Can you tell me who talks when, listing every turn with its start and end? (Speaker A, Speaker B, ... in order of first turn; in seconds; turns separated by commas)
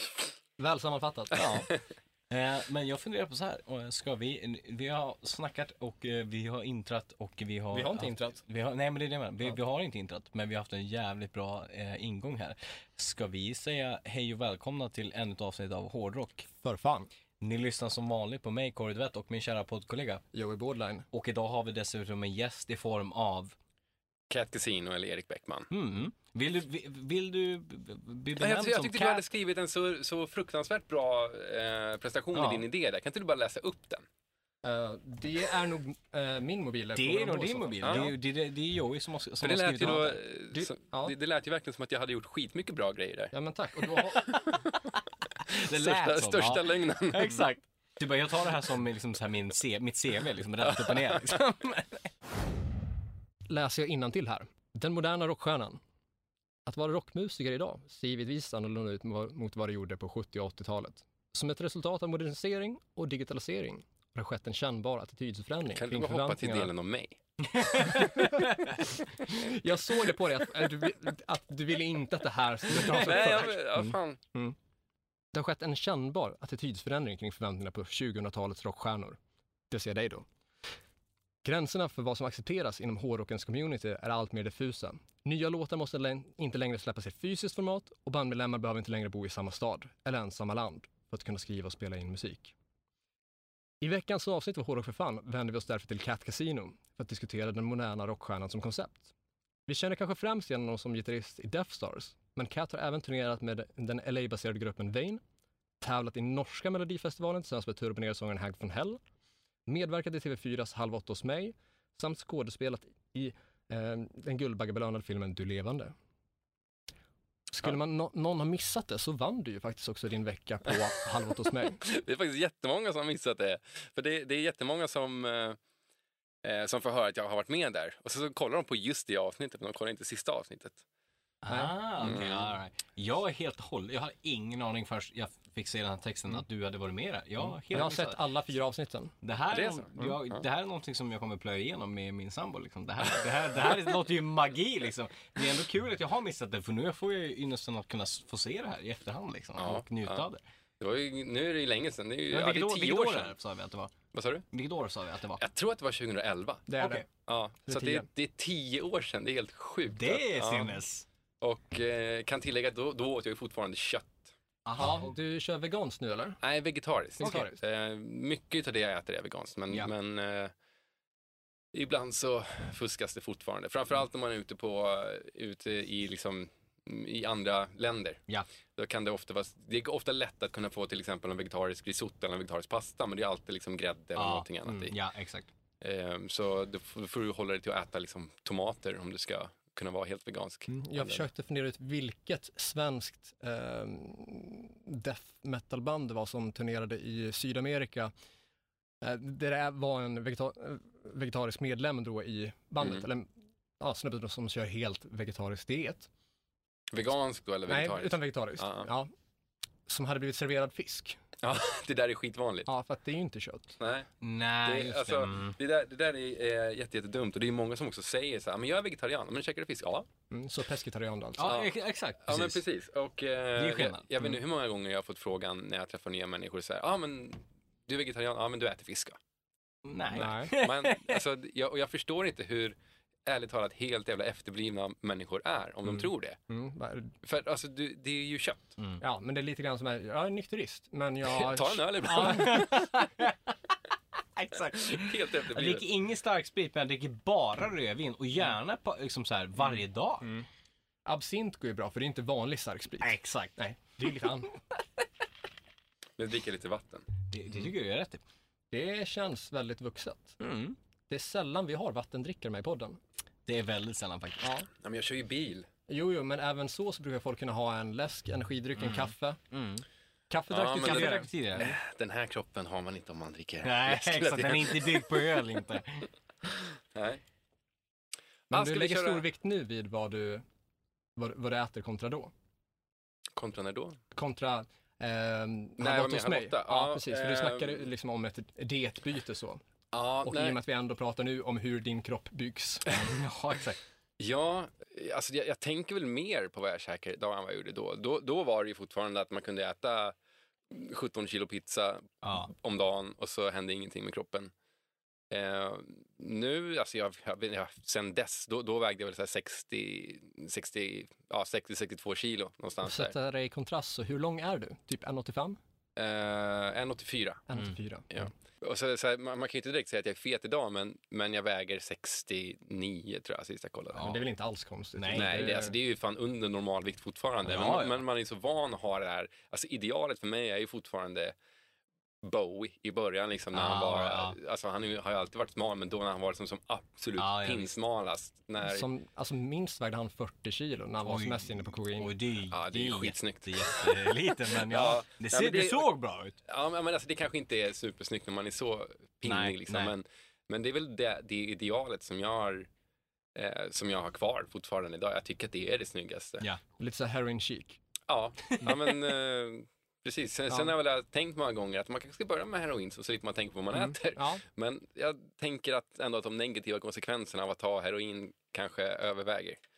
Speaker A: 0.6-1.5, Speaker B: 1.3-1.7, Speaker B: 2.3-16.5, Speaker A: 7.7-8.4, Speaker A: 16.6-17.1, Speaker B: 17.4-20.2, Speaker A: 20.3-21.1, Speaker B: 21.1-23.5, Speaker C: 24.3-25.7, Speaker B: 25.7-29.2, Speaker C: 28.4-34.0, Speaker B: 32.3-32.6, Speaker A: 34.6-38.1, Speaker B: 36.9-40.2, Speaker C: 37.8-38.1, Speaker C: 39.4-43.3, Speaker A: 40.5-41.1, Speaker A: 43.3-44.4, Speaker C: 43.9-44.7, Speaker C: 45.4-47.4, Speaker B: 45.5-52.1, Speaker C: 50.6-51.4, Speaker A: 53.5-55.8, Speaker A: 56.6-66.7, Speaker C: 65.8-67.2, Speaker B: 67.5-68.7, Speaker A: 67.8-74.5, Speaker B: 72.7-73.5, Speaker C: 72.8-74.2, Speaker A: 75.3-79.2, Speaker A: 79.7-80.2, Speaker A: 81.4-92.5, Speaker A: 93.8-99.1, Speaker A: 99.7-105.2, Speaker A: 105.8-109.0, Speaker A: 109.7-115.9, Speaker A: 117.5-121.8, Speaker C: 121.8-125.6, Speaker C: 126.4-130.8, Speaker B: 131.4-138.2, Speaker A: 131.5-131.7, Speaker C: 132.0-132.5, Speaker A: 137.7-139.1, Speaker B: 139.2-150.4, Speaker C: 139.5-140.4, Speaker C: 149.6-150.2, Speaker C: 150.8-153.3, Speaker B: 152.3-153.9, Speaker C: 154.1-154.4, Speaker B: 154.5-155.4, Speaker C: 155.4-160.8, Speaker A: 156.7-157.0, Speaker B: 156.8-157.0, Speaker A: 157.7-158.1, Speaker B: 159.9-161.1, Speaker C: 161.4-164.3, Speaker B: 164.7-165.1, Speaker A: 164.8-166.4, Speaker C: 166.4-170.5, Speaker A: 167.2-167.6, Speaker B: 167.2-167.5, Speaker C: 171.7-178.2, Speaker C: 178.8-184.9, Speaker B: 184.2-185.5, Speaker C: 185.8-191.2, Speaker A: 190.7-198.1, Speaker A: 199.0-206.1, Speaker C: 206.9-208.9, Speaker A: 207.7-209.1, Speaker A: 209.9-211.2, Speaker C: 211.4-212.7, Speaker A: 212.7-213.8, Speaker C: 213.8-214.1, Speaker B: 214.2-215.6, Speaker C: 214.6-220.1, Speaker A: 220.3-221.5, Speaker B: 221.4-222.6, Speaker C: 221.4-221.7, Speaker C: 222.2-229.2, Speaker B: 223.6-224.2, Speaker B: 229.8-231.2, Speaker A: 230.1-230.5, Speaker C: 230.2-232.7, Speaker C: 233.2-236.4, Speaker A: 236.5-237.1, Speaker C: 237.2-238.8, Speaker A: 239.0-242.7, Speaker C: 241.3-242.9, Speaker B: 242.1-243.5, Speaker B: 244.3-250.3, Speaker C: 244.7-245.8, Speaker A: 251.1-254.6, Speaker B: 253.0-253.5, Speaker C: 256.2-257.1, Speaker B: 257.3-258.2, Speaker A: 258.7-260.4, Speaker B: 260.4-260.8, Speaker A: 261.1-263.0, Speaker B: 263.4-264.4, Speaker A: 264.4-264.7, Speaker C: 264.8-265.7, Speaker A: 265.9-269.4, Speaker B: 268.8-269.8, Speaker A: 270.3-271.7, Speaker C: 270.5-275.2, Speaker B: 270.8-271.8, Speaker B: 273.6-276.1, Speaker C: 276.9-277.2, Speaker C: 278.5-279.2, Speaker A: 278.5-280.4, Speaker A: 281.1-282.3, Speaker C: 283.3-284.0, Speaker A: 284.1-289.6, Speaker C: 285.8-287.9, Speaker C: 289.9-290.6, Speaker A: 290.2-292.9, Speaker B: 292.9-293.8, Speaker C: 294.2-300.1, Speaker C: 300.7-304.5, Speaker B: 302.2-302.5, Speaker C: 305.3-313.1, Speaker A: 312.8-315.6, Speaker C: 315.9-317.5, Speaker A: 317.5-318.3, Speaker C: 318.1-324.2, Speaker A: 323.9-325.8, Speaker B: 324.9-325.6, Speaker C: 325.1-331.3, Speaker B: 327.4-328.0, Speaker C: 332.2-338.9, Speaker B: 333.5-334.4, Speaker B: 337.2-337.7, Speaker A: 338.6-342.1, Speaker B: 341.0-346.4, Speaker C: 342.5-345.9, Speaker C: 346.4-352.7, Speaker B: 349.2-349.9, Speaker C: 353.3-356.5, Speaker A: 356.8-357.8, Speaker C: 358.1-369.6, Speaker A: 363.7-364.4